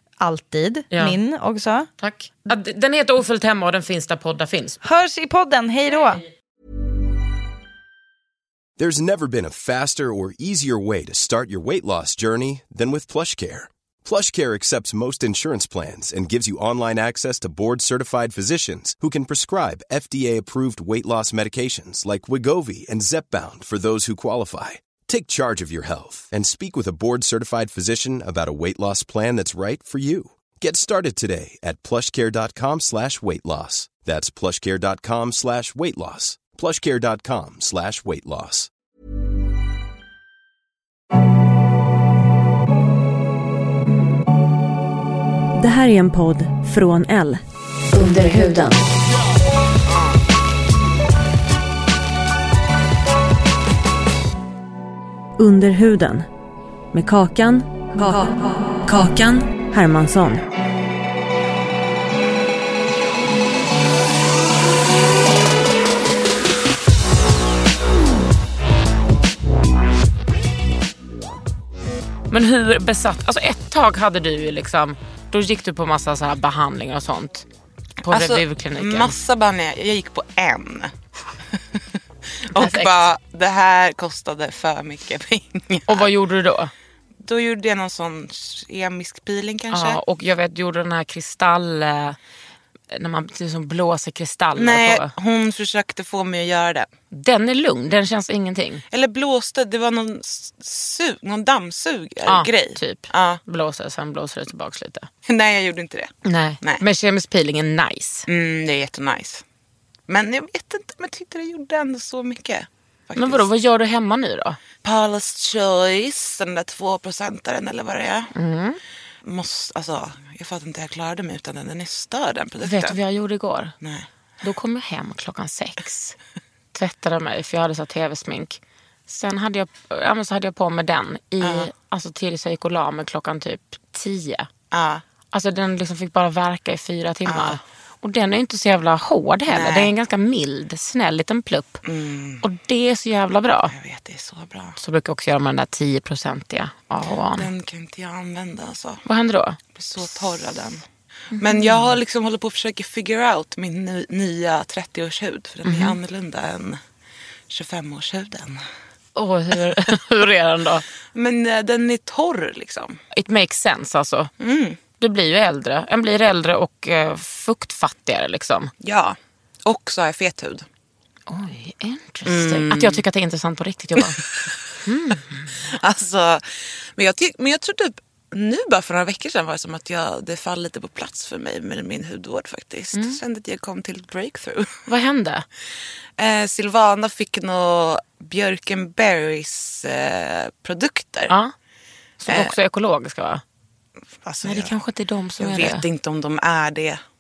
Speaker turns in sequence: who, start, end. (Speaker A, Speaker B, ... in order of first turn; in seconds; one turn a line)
Speaker A: 0.2-1.9
Speaker B: 0.9-1.2
Speaker B: 2.0-4.8
Speaker A: 4.8-6.2
Speaker C: 8.8-38.7
Speaker D: 45.6-47.4
Speaker D: 47.9-48.8
Speaker D: 55.4-56.3
Speaker D: 56.9-60.5
Speaker B: 72.3-77.5
Speaker E: 78.0-80.9
Speaker B: 78.1-79.2
Speaker E: 81.5-81.8
Speaker E: 82.5-86.1
Speaker B: 82.5-82.9
Speaker B: 85.9-86.7
Speaker E: 87.2-90.0
Speaker B: 89.7-92.2
Speaker B: 92.9-95.1
Speaker E: 94.6-96.9
Speaker B: 97.1-98.8
Speaker E: 98.9-103.4
Speaker B: 102.2-105.1
Speaker E: 105.3-106.8
Speaker B: 106.2-108.3
Speaker E: 108.3-109.4
Speaker E: 110.1-113.5
Speaker B: 113.2-114.6
Speaker E: 114.8-118.3
Speaker B: 118.3-118.8
Speaker E: 119.2-123.0
Speaker B: 122.6-123.8
Speaker E: 123.8-124.1
Speaker B: 124.4-126.2
Speaker B: 126.7-134.5
Speaker E: 131.4-131.7
Speaker E: 134.7-135.0
Speaker B: 135.3-141.8
Speaker E: 137.3-137.6
Speaker E: 139.5-139.9
Speaker E: 141.8-142.4
Speaker B: 142.4-143.7
Speaker E: 143.7-144.8
Speaker B: 144.8-147.5
Speaker E: 147.4-149.0
Speaker B: 149.1-149.6
Speaker E: 149.8-150.8
Speaker B: 151.3-151.9
Speaker E: 151.4-156.8
Speaker B: 155.7-156.0
Speaker E: 157.5-158.6
Speaker B: 159.2-160.8
Speaker E: 161.1-163.0
Speaker B: 163.1-164.3
Speaker E: 164.4-164.8
Speaker B: 165.0-168.7
Speaker E: 168.8-170.7
Speaker B: 171.3-174.2
Speaker E: 172.2-173.0
Speaker E: 174.0-174.5
Speaker B: 174.8-175.5
Speaker E: 175.6-176.4
Speaker E: 177.0-184.8
Speaker B: 182.9-183.2
Speaker B: 184.9-185.4
Speaker E: 186.2-191.3
Speaker B: 192.2-193.4
Speaker E: 192.3-192.6
Speaker E: 194.2-194.7
Speaker B: 194.4-195.8
Speaker E: 195.4-197.0